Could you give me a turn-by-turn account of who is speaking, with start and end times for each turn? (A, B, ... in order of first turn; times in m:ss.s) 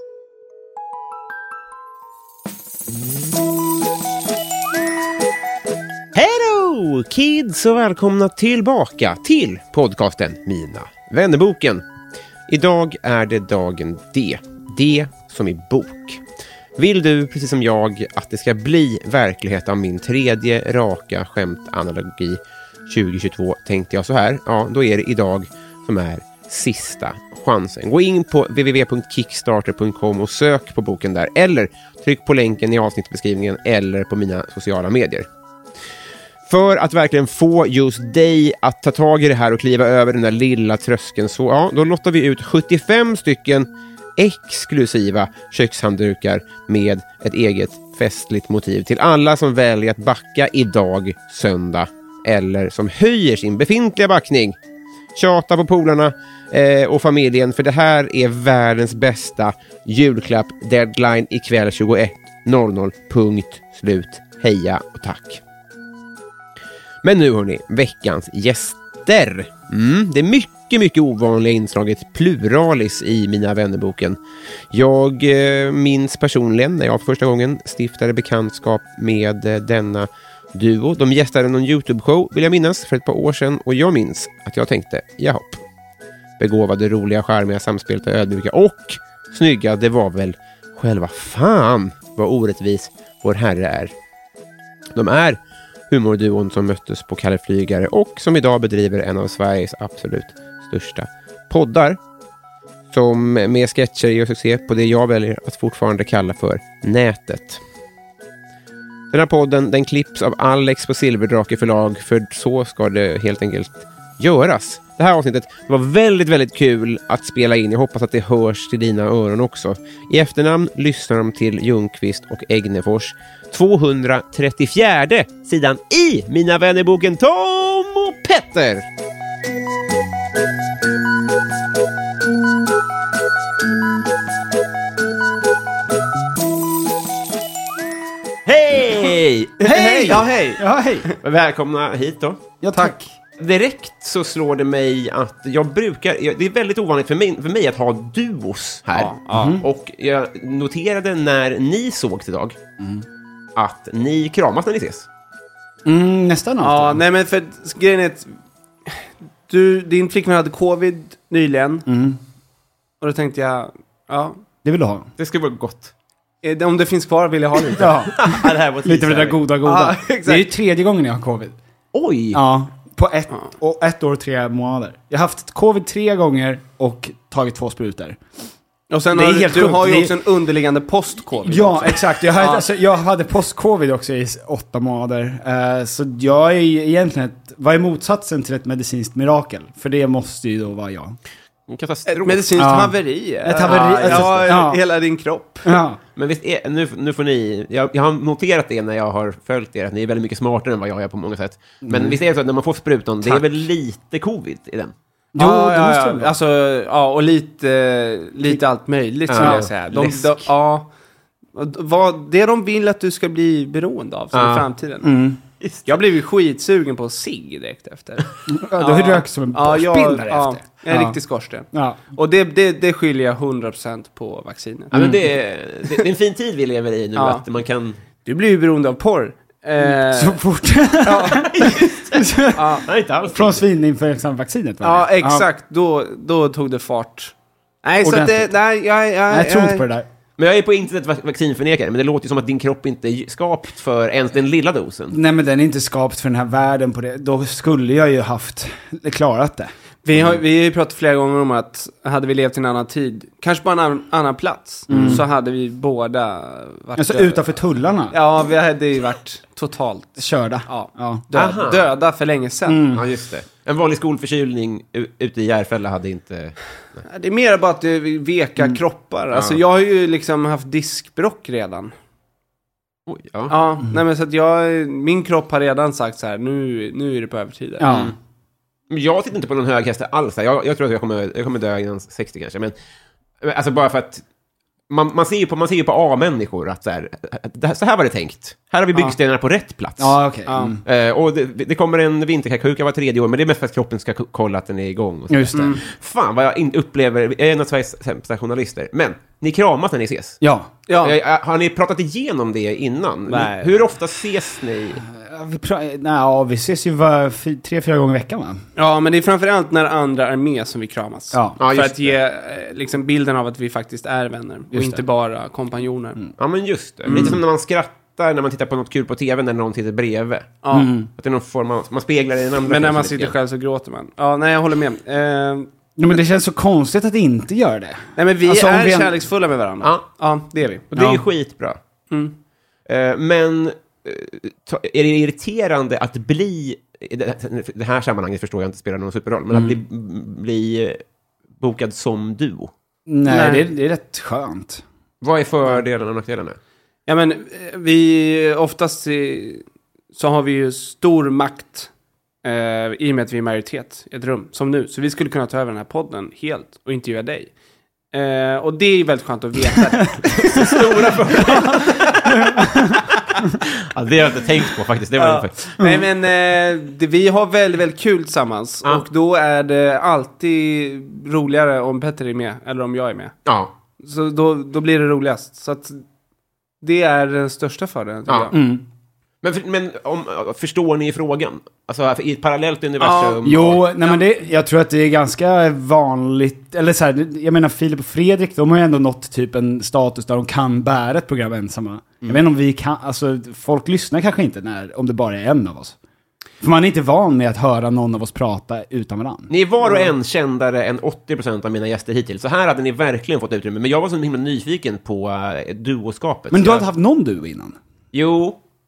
0:06.1-0:11.8 A
0:12.5-0:16.2 A
0:16.8-0:35.2 A
0:36.5-0:54.6 A
0:55.2-1:05.4 A
1:07.0-1:14.2 A
1:14.7-1:25.6 A
1:26.4-1:33.9 A
1:34.9-1:35.4 A
1:35.9-1:42.0 A
1:42.9-1:47.6 A
1:49.1-2:08.9 A
2:18.4-2:20.1 A
2:19.6-2:21.2 B
2:19.6-2:21.1 C
2:21.2-2:22.4 A
2:22.6-2:23.1 C
2:23.4-2:32.6 A
2:28.9-2:29.6 B
2:29.3-2:29.6 C
2:32.8-2:33.0 C
2:33.6-2:35.1 A
2:35.8-2:37.0 C
2:36.6-2:38.3 B
2:38.8-2:41.9 B
2:41.9-2:42.2 C
2:43.0-2:44.4 B
2:44.6-2:45.1 C
2:45.2-2:45.9 A
2:46.4-2:48.1 B
2:47.7-2:51.6 C
2:48.1-2:49.4 A
2:49.6-2:50.4 B
2:51.9-2:52.4 A
2:52.3-2:58.2 C
2:58.9-3:02.6 B
2:59.1-3:00.2 C
3:01.4-3:11.2 C
3:11.7-3:12.7 A
3:12.1-3:15.8 B
3:12.6-3:14.8 C
3:13.6-3:14.5 A
3:15.6-3:16.0 C
3:16.2-3:24.9 A
3:21.8-3:22.2 C
3:25.3-3:26.3 C
3:25.4-3:30.9 B
3:29.3-3:30.4 A
3:29.4-3:29.7 C
3:31.5-3:35.1 B
3:34.3-3:34.7 A
3:35.0-3:35.4 C
3:35.6-3:36.0 A
3:35.9-3:44.9 B
3:38.5-3:41.2 C
3:41.7-3:42.0 C
3:44.9-3:48.0 A
3:44.9-3:45.2 C
3:47.2-3:47.4 B
3:48.2-3:50.4 B
3:49.8-3:55.5 C
3:51.0-3:51.5 B
3:51.3-3:52.2 A
3:52.5-3:52.8 B
3:52.8-3:53.6 A
3:54.8-3:59.9 B
3:58.0-3:58.5 C
3:59.3-4:00.0 C
4:00.4-4:05.2 A
4:05.1-4:09.7 C
4:10.0-4:17.6 B
4:14.9-4:15.2 C
4:14.9-4:15.2 A
4:17.0-4:18.1 C
4:18.1-4:22.8 B
4:20.2-4:21.2 C
4:21.3-4:21.9 A
4:22.7-4:23.0 C
4:22.9-4:26.6 A
4:27.0-4:31.9 B
4:29.3-4:29.6 A
4:33.1-4:33.5 A
4:33.5-4:37.9 B
4:37.8-4:38.1 C
4:37.9-4:38.1 A
4:38.9-4:42.7 A
4:43.4-4:44.2 A
4:44.9-4:50.2 A
4:50.0-4:50.8 C
4:50.5-4:50.7 B
4:50.8-5:00.4 A
4:55.3-4:55.8 C
4:55.5-4:55.8 B
5:00.4-5:00.7 C
5:00.9-5:01.1 B
5:01.0-5:05.0 A
5:03.3-5:03.8 B
5:05.1-5:08.6 C
5:08.8-5:16.2 B
5:11.3-5:11.6 C
5:11.6-5:12.1 A
5:14.7-5:15.0 C
5:16.4-5:20.6 A
5:17.1-5:17.3 B
5:17.1-5:17.4 C
5:20.6-5:20.9 B
5:20.7-5:21.1 C
5:21.2-5:23.3 A
5:22.7-5:25.7 B
5:26.0-5:29.1 C
5:28.2-5:30.8 B
5:30.9-5:31.8 A
5:30.9-5:31.2 C
5:32.1-5:32.4 B
5:32.8-5:41.0 A
5:41.6-5:42.7 A
5:43.1-5:44.8 C
5:43.2-5:43.6 B
5:45.2-5:46.6 A
5:47.1-5:51.9 B
5:52.4-5:57.5 B
5:58.1-6:01.8 B
6:00.3-6:03.0 A
6:02.4-6:03.0 C
6:03.6-6:05.7 A
6:05.2-6:13.3 B
6:13.4-6:13.7 A
6:14.0-6:16.0 B
6:16.8-6:18.6 B
6:18.3-6:18.5 A
6:18.5-6:18.8 C
6:19.4-6:23.8 A
6:23.0-6:24.2 B
6:23.4-6:35.9 C
6:36.6-6:39.5 C
6:39.5-6:46.8 A
6:46.5-6:47.8 C
6:48.1-6:48.6 A